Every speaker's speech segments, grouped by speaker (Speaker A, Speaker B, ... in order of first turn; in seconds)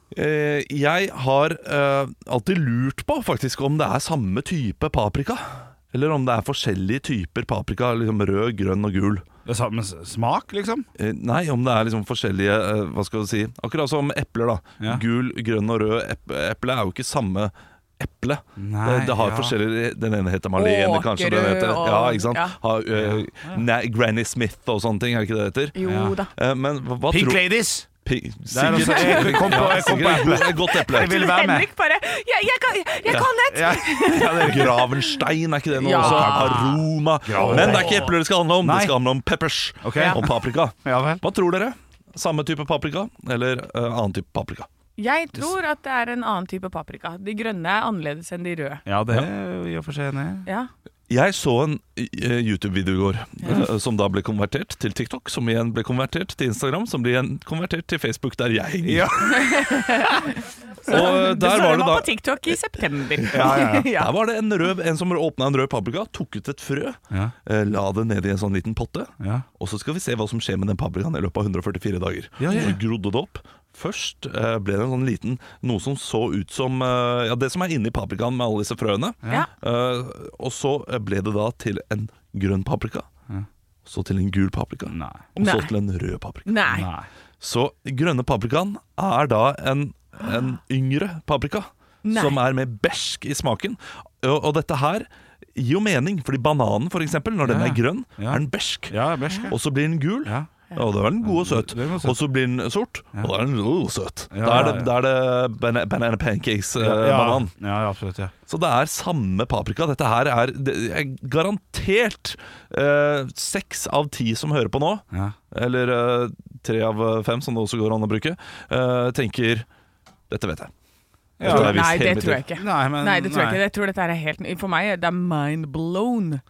Speaker A: 0.1-9.2, 11.0-25.8, 26.3-31.3, 34.4-44.7, 51.1-59.3, 60.9-62.2, 63.2-83.1, 83.9-86.8, 87.4-99.0, 99.5-107.5, 108.5-119.7, 120.3-120.7, 121.4-122.4
Speaker B: 9.5-10.9, 18.6-19.6, 22.9-23.6, 25.8-26.1, 27.1-27.9, 28.5-31.7, 33.5-34.8, 35.9-39.0, 39.8-41.2, 48.9-50.5, 58.8-59.7, 63.3-63.9, 69.2-69.5, 72.4-72.8, 84.9-85.2, 86.7-87.1, 97.4-99.6, 101.2-102.2, 104.3-104.9, 106.8-108.3, 121.4-121.9, 122.5-123.6
Speaker C: 20.6-22.6, 25.8-26.3, 28.7-35.0, 35.8-36.8, 37.4-38.0, 45.0-48.8, 59.3-64.1, 85.4-85.7, 86.5-86.9, 92.0-92.4, 121.4-126.4